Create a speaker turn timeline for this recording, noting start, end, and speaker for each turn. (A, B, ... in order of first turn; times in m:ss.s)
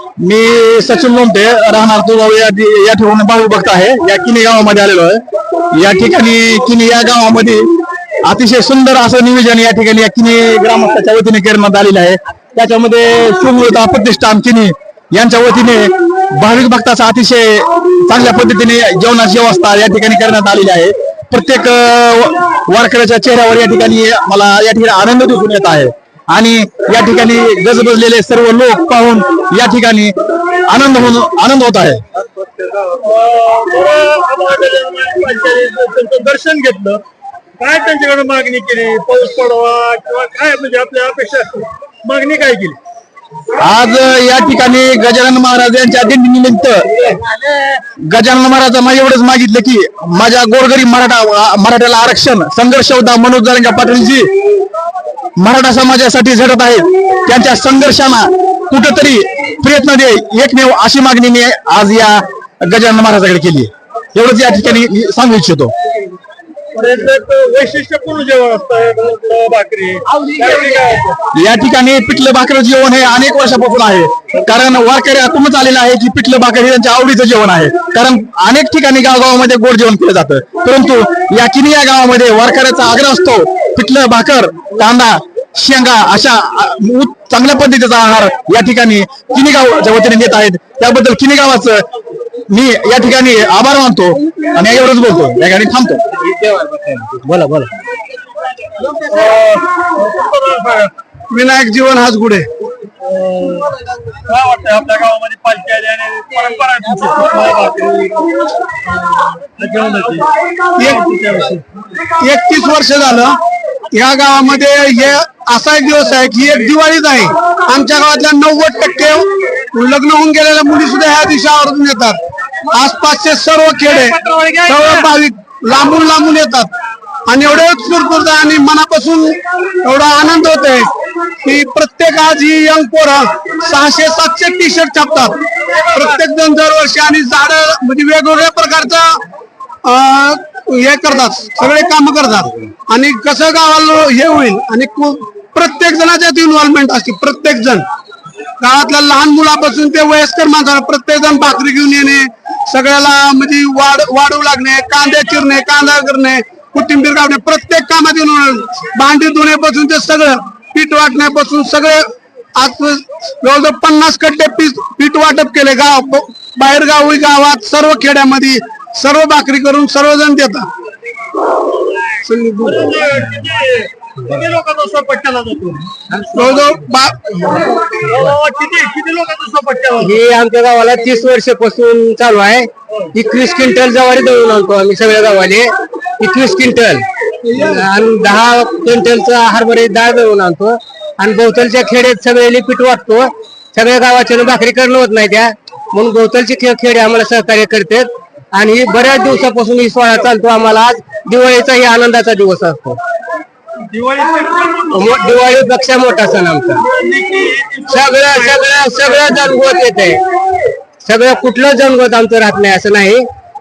0:00.2-0:05.2 A
0:05.7-0:07.7 A
0:08.2-0:30.1 A
0:30.7-0:32.0 A
0:32.4-0:37.0 B
0:37.6-0:42.8 B
0:43.6-0:46.9 A
0:47.1-0:47.7 B
0:48.1-0:54.3 A
0:55.4-1:05.7 A
1:06.7-1:11.2 B
1:11.3-1:31.8 A
1:32.5-1:36.0 A
1:36.2-1:37.8 C
1:38.9-1:40.9 B
1:41.3-1:42.5 D
1:43.0-1:48.3 B
1:48.9-1:51.4 B
1:50.8-1:51.6 D
1:52.2-1:53.4 D
1:53.9-2:02.2 D
2:02.7-2:06.7 D
2:04.4-2:04.6 C
2:07.3-2:10.9 D
2:11.4-2:19.2 D
2:19.8-2:27.8 D
2:28.6-2:42.0 D
2:42.6-2:50.7 D
2:52.2-2:53.0 D
2:52.6-2:55.9 B
2:56.3-2:57.7 D
2:58.0-3:00.1 B
3:00.0-3:23.0 C
3:23.8-3:25.2 B
3:24.9-3:26.8 C
3:26.8-3:28.6 B
3:27.9-3:30.2 C
3:31.0-3:33.2 C